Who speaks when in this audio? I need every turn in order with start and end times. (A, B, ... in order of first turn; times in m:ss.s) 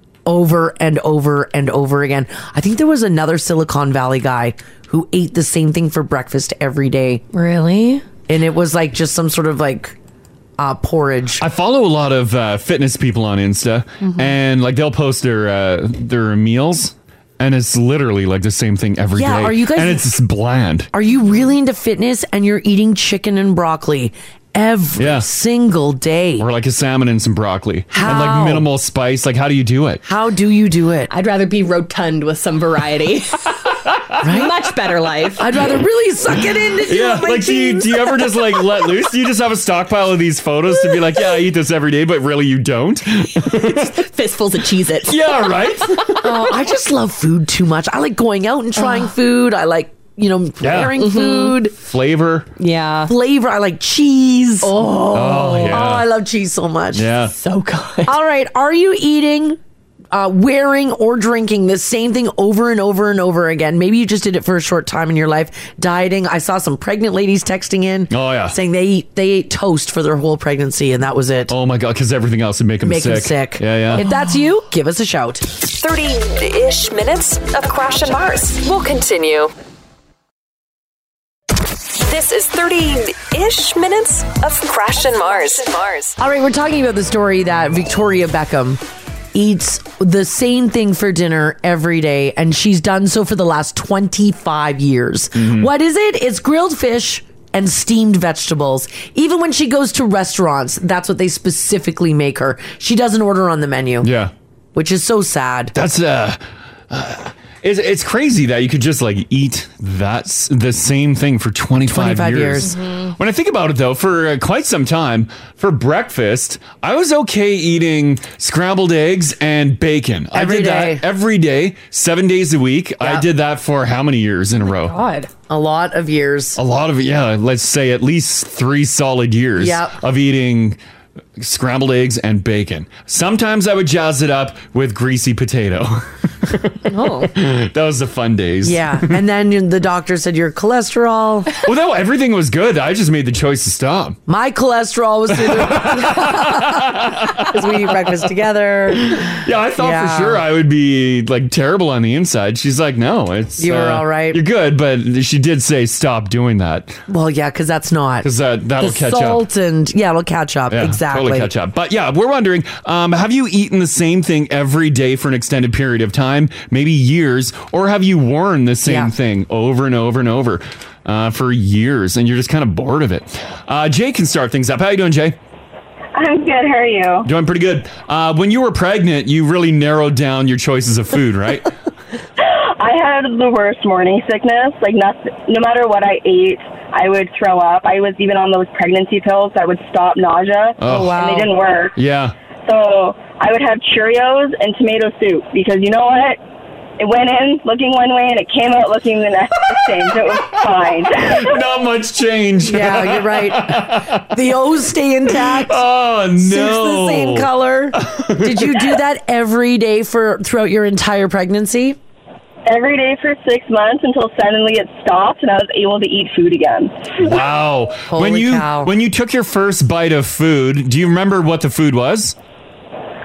0:00.3-0:07.2 A
0:07.3-0:08.0 B
0:08.3-0:10.0 A
0:10.6-0:11.4 A
0:11.4-0:20.9 C
0:19.2-0:20.1 A
0:20.9-0:26.5 A
0:25.0-0:25.3 C
0:26.4-0:30.0 C
0:27.9-0:28.6 A
0:30.0-0:31.1 A
0:31.1-0:33.6 B
0:34.2-0:35.4 B
0:34.2-0:34.5 A
0:35.4-0:38.2 A
0:36.8-0:44.0 C
0:43.5-0:45.3 B
0:45.1-0:46.5 C
0:46.2-0:51.7 A
0:48.8-0:49.1 B
0:50.6-0:51.0 C
0:51.0-0:51.6 B
0:51.8-0:52.5 C
0:52.6-0:53.1 B
0:53.1-0:57.1 A
0:55.1-0:56.1 C
0:56.9-0:57.4 C
0:57.4-0:58.1 B
0:58.1-0:59.6 A
1:00.1-1:11.5 A
1:08.1-1:08.6 C
1:11.5-1:14.0 C
1:12.8-1:15.5 A
1:15.7-1:19.5 D
1:21.9-1:26.2 D
1:26.2-1:28.8 A
1:29.3-1:44.1 A
1:35.3-1:35.7 C
1:44.0-1:44.3 C
1:44.8-1:45.8 A
1:45.7-2:05.0 C
1:51.8-1:52.8 A
1:52.8-1:53.1 B
2:00.3-2:01.0 A
2:04.7-2:05.3 B
2:05.5-2:06.6 A
2:06.6-2:10.8 C
2:09.6-2:10.0 A
2:11.4-2:19.2 C
2:16.9-2:17.3 B
2:18.6-2:21.6 A
2:21.6-2:24.2 C
2:24.3-2:30.5 A
2:25.3-2:28.1 C
2:28.9-2:37.0 C
2:33.6-2:34.4 A
2:37.1-2:41.5 A
2:38.2-2:39.5 C
2:40.7-2:55.4 C
2:48.8-2:49.1 A
2:56.2-2:57.3 E
2:57.2-3:01.7 C
3:02.4-3:12.0 E
3:10.8-3:12.4 C
3:10.8-3:11.4 A
3:12.7-3:16.4 E
3:17.0-3:21.7 E
3:20.5-3:24.4 C
3:22.6-3:25.8 A
3:25.3-3:29.0 C
3:26.4-3:32.0 A
3:32.7-3:37.4 E
3:37.2-3:42.4 C
3:38.1-3:38.9 A